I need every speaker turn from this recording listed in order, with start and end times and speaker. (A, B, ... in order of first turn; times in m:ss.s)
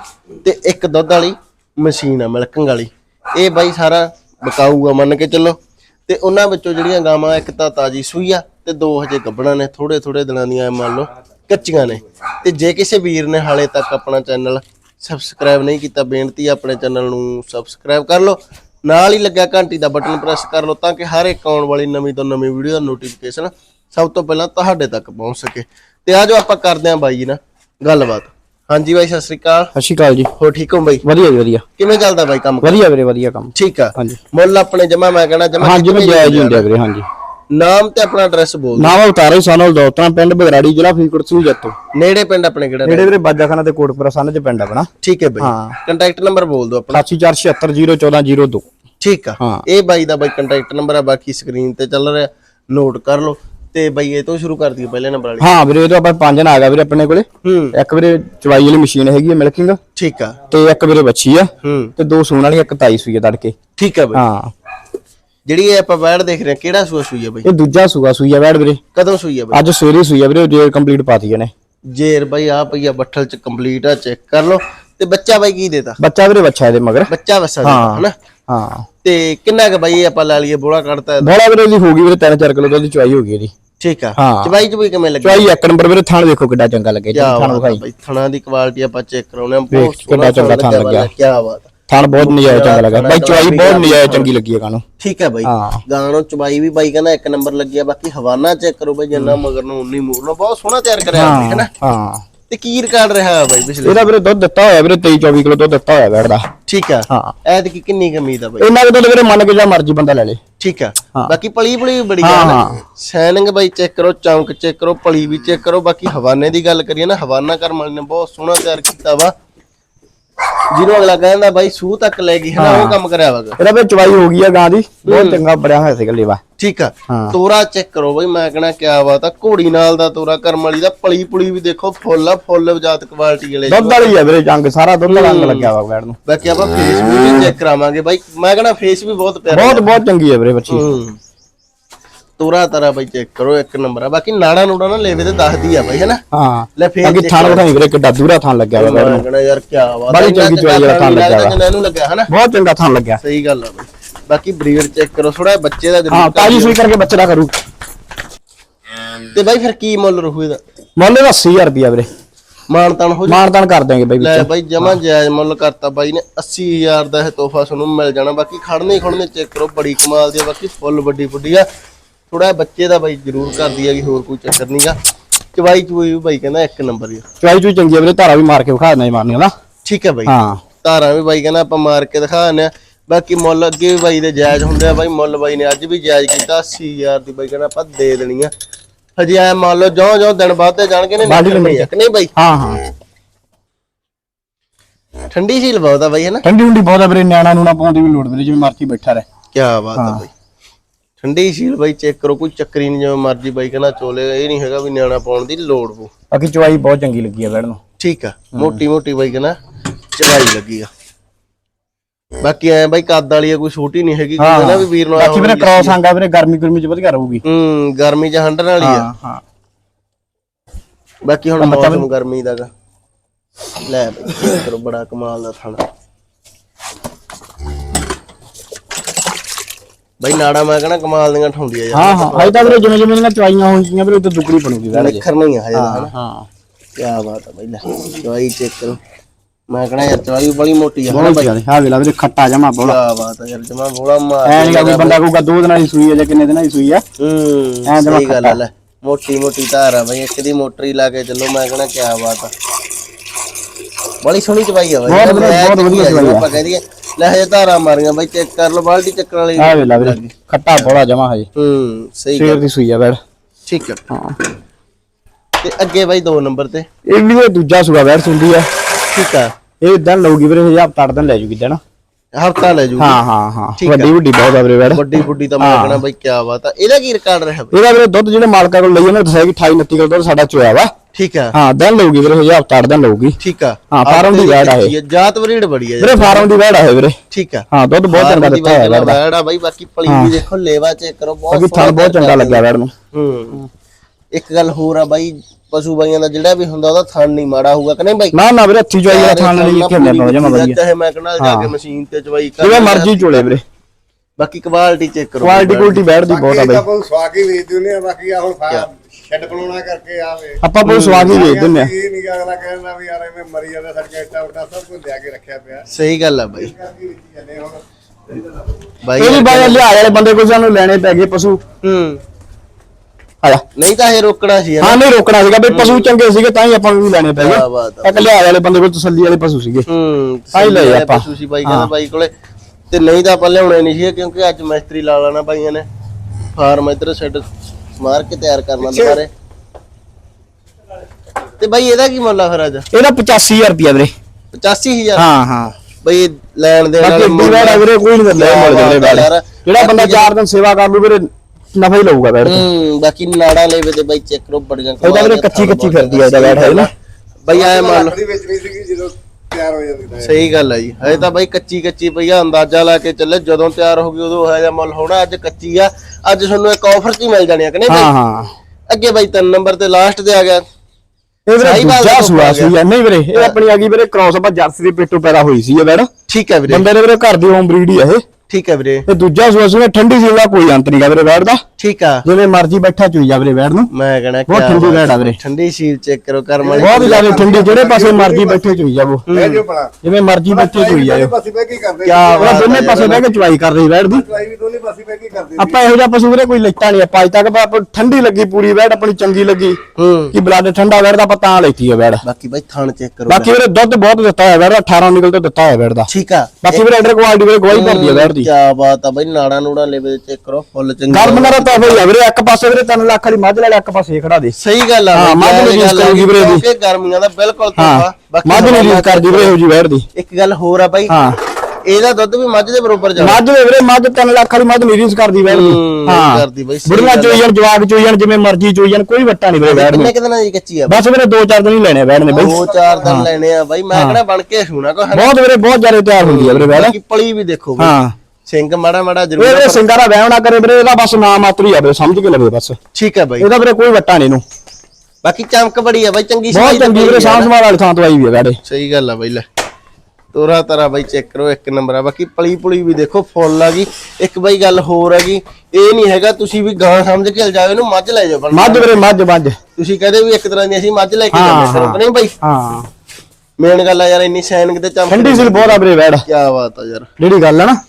0:00.4-0:29.7 A
0:29.8-0:30.3 B
0:30.4-0:31.0 A
0:31.0-0:31.6 B
0:31.8-0:32.8 A
0:32.6-0:34.2 B
0:33.5-0:36.7 A
0:35.6-0:37.1 B
0:37.5-0:39.0 A
0:38.8-0:41.8 B
0:41.9-0:43.1 A
0:42.9-0:44.9 B
0:45.0-0:47.0 A
0:45.4-0:45.8 B
0:46.9-0:48.6 B
0:49.0-0:55.5 A
0:55.4-0:59.8 B
0:57.4-0:57.8 A
1:00.0-1:00.4 A
1:00.5-1:03.6 B
1:01.6-1:01.9 A
1:03.8-1:04.2 A
1:04.1-1:04.5 B
1:05.5-1:07.5 A
1:07.4-1:08.8 B
1:08.9-1:09.6 A
1:09.5-1:11.5 B
1:11.9-1:16.0 A
1:16.0-1:17.1 B
1:17.1-1:18.1 A
1:17.6-1:18.9 B
1:19.0-1:21.3 A
1:21.2-1:23.5 B
1:23.8-1:25.6 A
1:24.2-1:24.5 B
1:25.2-1:27.8 B
1:27.1-1:34.3 A
1:29.7-1:31.1 B
1:31.9-1:34.8 B
1:35.0-1:41.7 A
1:35.4-1:35.8 B
1:41.1-1:42.2 B
1:42.5-1:44.1 A
1:43.8-1:46.5 B
1:46.7-1:48.7 A
1:47.1-1:47.3 B
1:48.6-1:50.4 B
1:50.6-1:59.3 A
1:52.2-1:52.8 B
2:00.7-2:03.6 A
2:02.6-2:03.0 B
2:03.6-2:06.4 B
2:05.1-2:05.4 A
2:06.6-2:14.2 A
2:07.1-2:07.4 B
2:13.7-2:16.2 B
2:15.1-2:15.7 A
2:16.3-2:19.9 A
2:19.5-2:20.8 B
2:20.7-2:21.2 A
2:22.4-2:26.2 A
2:26.3-2:29.2 B
2:26.8-2:27.7 A
2:28.8-2:32.3 A
2:30.1-2:31.6 B
2:32.3-2:33.2 B
2:33.2-2:36.8 A
2:36.1-2:37.5 B
2:39.3-2:40.6 A
2:41.0-2:42.1 B
2:42.7-2:43.4 A
2:43.3-2:44.9 B
2:44.2-2:51.7 A
2:52.3-2:55.0 A
2:55.6-2:57.2 A
2:57.4-2:59.5 B
2:59.8-3:08.5 A
3:00.3-3:00.6 B
3:09.2-3:12.3 A
3:11.2-3:12.8 B
3:15.3-3:16.4 A
3:16.4-3:19.2 B
3:19.5-3:20.3 A
3:20.0-3:20.2 B
3:21.2-3:26.1 A
3:26.3-3:27.8 B
3:28.0-3:29.6 A
3:28.6-3:28.8 B
3:30.2-3:30.9 A
3:32.4-3:36.0 A
3:34.4-3:37.4 B
3:37.4-3:39.1 A
3:38.8-3:39.4 B
3:41.2-3:42.7 A
3:41.6-3:42.0 B
3:43.8-3:45.8 A
3:50.2-3:52.9 A
3:51.9-3:55.2 B
3:54.9-3:56.1 A
3:55.7-3:56.5 B
3:57.0-3:59.0 A
3:59.7-4:01.5 A
4:01.1-4:03.0 B
4:02.8-4:05.2 A
4:04.5-4:07.0 B
4:07.2-4:12.5 A
4:07.9-4:08.6 B
4:14.2-4:21.0 A
4:15.1-4:16.5 B
4:19.6-4:21.5 B
4:21.6-4:22.6 A
4:22.3-4:23.2 B
4:23.7-4:24.0 A
4:24.1-4:24.4 B
4:25.6-4:26.9 A
4:27.1-4:28.7 B
4:29.1-4:29.5 A
4:29.8-4:31.8 B
4:32.4-4:33.2 A
4:33.0-4:35.0 B
4:33.8-4:34.1 A
4:34.9-4:37.8 A
4:35.6-4:36.0 B
4:37.7-4:40.9 B
4:41.1-4:41.5 A
4:41.6-4:43.4 B
4:43.4-4:46.5 A
4:43.9-4:44.9 B
4:46.0-4:47.2 B
4:47.3-4:53.6 A
4:47.7-4:49.2 B
4:50.1-4:50.4 B
4:51.5-4:52.9 B
4:54.3-4:58.4 A
4:58.3-5:00.8 B
4:59.1-5:03.5 A
5:01.4-5:01.7 B
5:02.6-5:03.6 B
5:04.4-5:06.1 A
5:05.4-5:06.8 B
5:06.3-5:10.6 C
5:10.6-5:11.9 B
5:10.8-5:11.4 A
5:11.3-5:15.8 C
5:15.9-5:16.7 A
5:16.6-5:18.5 C
5:19.0-5:20.2 A
5:19.2-5:21.6 B
5:21.8-5:22.2 A
5:23.8-5:25.0 A
5:24.8-5:29.9 B
5:25.7-5:26.1 A
5:27.4-5:28.3 A
5:29.9-5:32.3 A
5:30.5-5:31.9 B
5:32.9-5:35.9 A
5:36.6-5:37.4 A
5:38.0-5:39.3 A
5:38.8-5:39.2 B
5:41.6-5:42.9 A
5:42.9-5:44.1 B
5:44.5-5:45.3 A
5:45.2-5:45.7 B
5:46.0-5:50.3 A
5:47.0-5:52.6 B
5:52.4-5:56.9 A
5:55.0-5:56.9 B
5:57.4-5:58.2 A
5:57.5-6:00.4 C
6:00.2-6:08.1 A
6:07.9-6:08.5 B
6:08.9-6:10.6 A
6:11.5-6:16.1 B
6:11.6-6:12.7 A
6:16.3-6:16.9 A
6:16.7-6:18.2 B
6:18.5-6:19.0 A
6:19.1-6:21.6 B
6:21.8-6:22.2 A
6:22.2-6:23.9 B
6:23.9-6:27.6 A
6:24.5-6:25.4 B
6:26.6-6:28.8 C
6:26.8-6:29.3 B
6:29.3-6:29.6 A
6:29.3-6:29.9 C
6:30.0-6:31.3 B
6:30.5-6:33.0 C
6:32.1-6:33.2 A
6:32.1-6:34.2 B
6:34.1-6:35.8 C
6:35.6-6:39.8 B
6:40.0-6:40.4 A
6:40.3-6:42.2 B
6:42.2-6:43.5 A
6:43.3-6:46.1 B
6:46.1-6:46.9 A
6:46.6-6:48.5 B
6:47.7-6:52.1 A
6:51.1-6:54.6 B
6:54.5-6:59.6 A
6:55.1-6:56.6 B
6:57.8-7:00.1 B
7:00.2-7:01.2 A
7:01.1-7:01.4 B
7:01.8-7:03.4 A
7:03.2-7:10.1 B
7:05.5-7:07.5 A
7:09.6-7:11.0 A
7:10.9-7:13.3 B
7:12.3-7:15.3 A
7:12.6-7:12.9 C
7:13.9-7:14.2 B
7:15.1-7:17.0 B
7:16.2-7:19.8 A
7:17.8-7:18.1 B
7:19.4-7:22.8 B
7:22.9-7:23.5 A
7:23.4-7:24.4 B
7:25.2-7:27.5 A
7:26.5-7:28.6 B
7:28.6-7:29.4 A
7:30.3-7:39.0 A
7:38.5-7:39.6 B
7:39.8-7:42.3 A
7:41.3-7:42.9 B
7:43.6-7:47.1 A
7:45.1-7:46.2 B
7:47.2-7:47.8 B